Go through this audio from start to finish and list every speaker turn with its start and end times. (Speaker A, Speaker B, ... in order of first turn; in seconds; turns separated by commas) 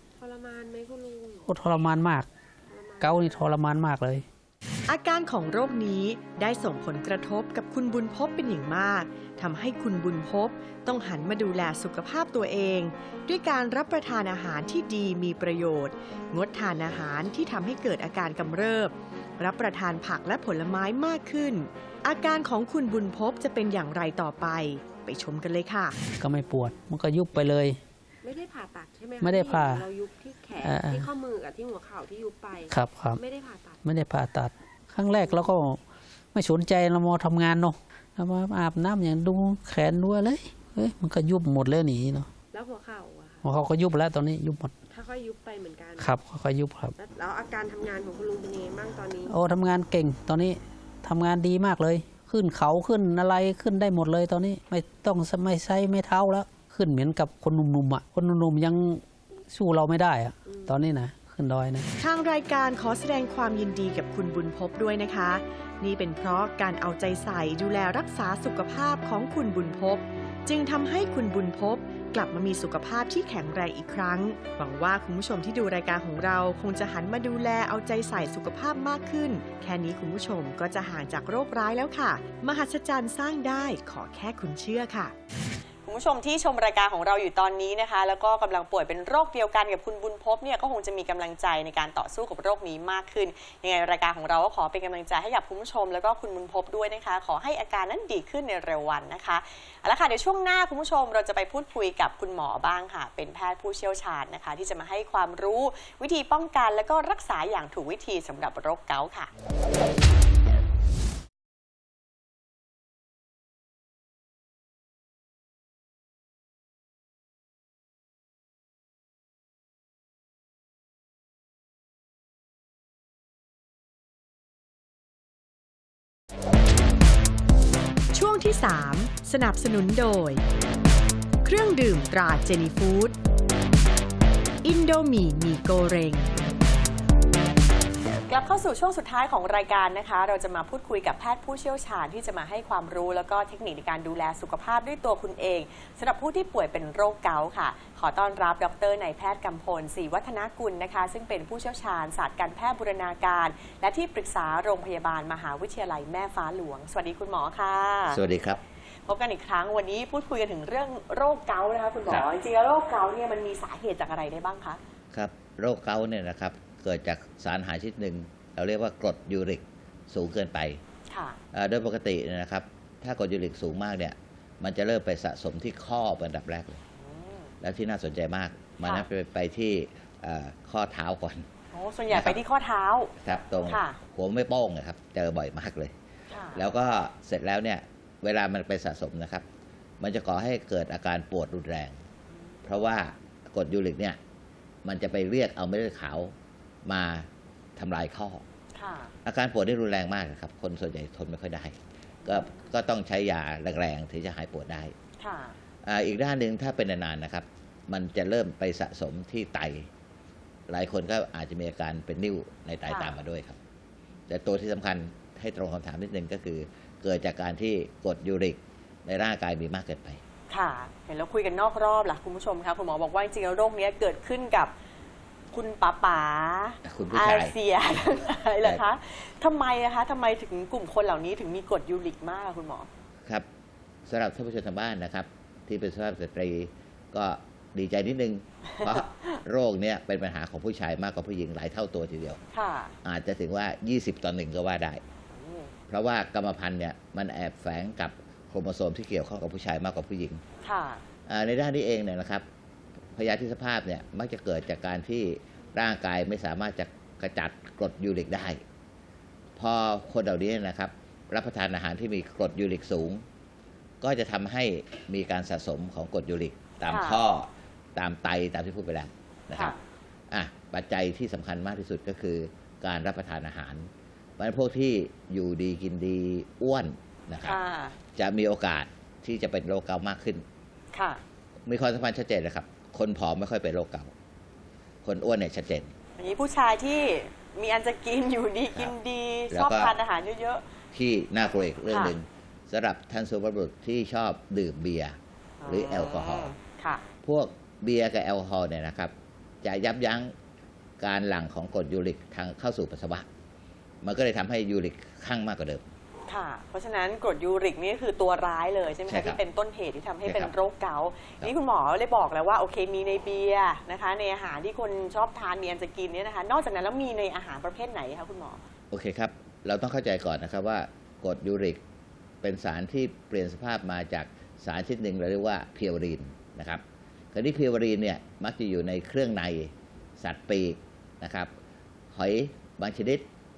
Speaker A: 0.2-1.5, Speaker B: 1.4-2.3, Speaker A: 2.7-3.5, Speaker B: 3.0-4.2, Speaker C: 4.9-26.0, Speaker B: 26.2-27.8, Speaker A: 28.2-33.8, Speaker B: 29.2-29.9, Speaker B: 30.6-31.1, Speaker B: 32.7-33.2, Speaker B: 33.8-35.8, Speaker A: 35.1-35.5, Speaker B: 36.3-42.3, Speaker A: 42.5-43.5, Speaker B: 43.4-44.7, Speaker A: 44.9-46.2, Speaker B: 46.0-47.0, Speaker A: 47.0-49.4, Speaker B: 49.3-61.9, Speaker A: 60.5-60.8, Speaker C: 62.0-85.1, Speaker D: 85.8-109.3, Speaker C: 128.1-130.4, Speaker C: 131.4-133.2, Speaker C: 134.6-136.3, Speaker D: 138.3-158.2, Speaker E: 158.1-158.6, Speaker D: 159.1-164.8, Speaker E: 165.1-170.8, Speaker D: 171.1-171.4, Speaker E: 171.5-176.8, Speaker D: 177.0-177.5, Speaker E: 177.6-181.4, Speaker D: 181.7-183.1, Speaker E: 182.1-182.4, Speaker E: 183.2-185.9, Speaker D: 183.6-184.0, Speaker D: 186.3-186.7, Speaker E: 186.5-189.4, Speaker E: 190.0-192.0, Speaker D: 192.3-192.6, Speaker E: 192.6-194.2, Speaker E: 194.8-196.3, Speaker E: 196.8-198.4, Speaker D: 198.7-199.1, Speaker E: 199.2-204.9, Speaker D: 202.2-202.7, Speaker D: 205.2-205.6, Speaker E: 205.8-209.9, Speaker E: 210.7-213.6, Speaker D: 212.9-213.2, Speaker E: 214.3-220.2, Speaker D: 220.5-224.7, Speaker D: 225.5-232.9, Speaker E: 226.8-227.6, Speaker E: 234.1-242.4, Speaker D: 238.8-239.4, Speaker D: 242.5-242.9, Speaker E: 243.0-245.0, Speaker D: 245.3-245.7, Speaker E: 245.9-250.4, Speaker D: 250.6-251.0, Speaker E: 251.3-252.4, Speaker E: 253.1-258.6, Speaker E: 259.6-263.2, Speaker E: 264.0-269.8, Speaker D: 266.9-267.2, Speaker D: 269.5-269.8, Speaker E: 270.3-277.6, Speaker D: 277.4-277.9, Speaker E: 278.2-280.4, Speaker D: 280.9-281.2, Speaker E: 281.6-284.1, Speaker E: 285.0-285.9, Speaker D: 286.2-290.6, Speaker E: 289.5-289.9, Speaker E: 290.9-296.5, Speaker D: 291.9-292.2, Speaker D: 295.6-297.0, Speaker E: 297.2-300.3, Speaker E: 301.0-303.2, Speaker E: 304.0-305.9, Speaker D: 306.3-318.6, Speaker E: 309.1-309.4, Speaker E: 310.2-310.5, Speaker E: 318.9-321.8, Speaker E: 322.4-326.8, Speaker E: 327.3-331.5, Speaker E: 332.1-333.2